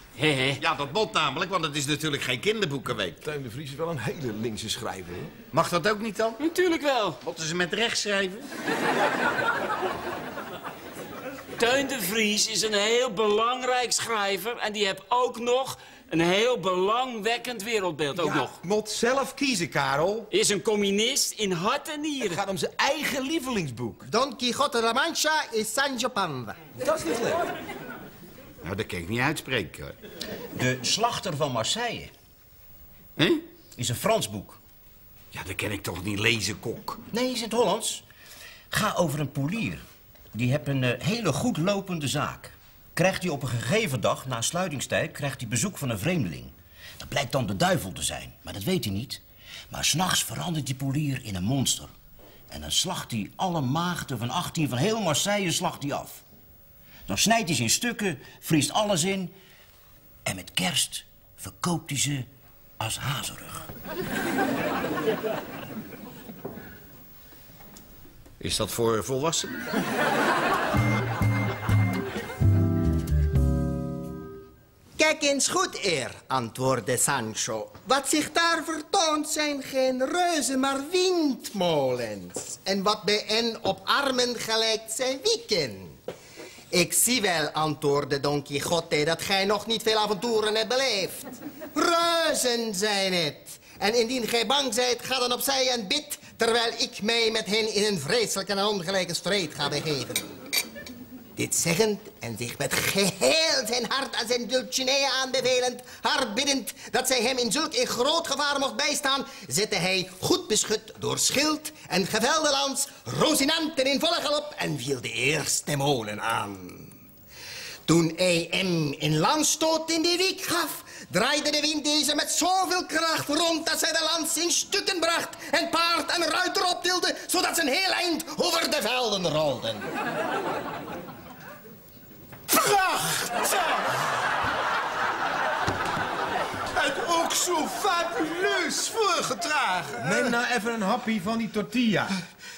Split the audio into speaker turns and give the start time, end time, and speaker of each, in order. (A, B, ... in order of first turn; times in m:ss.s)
0:00.2-0:00.6 A
0:00.6-0:03.2 B
0:03.2-0:05.3 C
0:05.5-0:06.4 B
0:06.4-0:07.2 A
0:07.2-0:08.4 B
0:11.6-0:18.6 A
0:18.1-0:20.3 C
0:20.3-0:22.4 A
0:22.2-0:24.0 C
0:24.1-0:26.6 D
0:26.8-0:27.4 C
0:28.6-0:30.0 B
0:30.5-0:32.1 E
0:33.2-0:33.4 B
0:33.8-0:34.6 E
0:35.3-0:37.0 B
0:37.1-0:38.0 E
0:38.7-0:39.8 E
0:40.3-0:51.9 E
0:52.5-0:56.2 E
0:57.1-0:59.3 E
1:00.2-1:02.3 E
1:02.8-1:03.6 E
1:08.4-1:09.7 B
1:15.0-1:26.0 D
1:26.7-1:40.3 D
1:41.4-1:57.0 D
1:57.9-2:09.9 D
2:12.5-2:13.9 F
2:16.7-2:20.3 F
2:20.0-2:22.1 C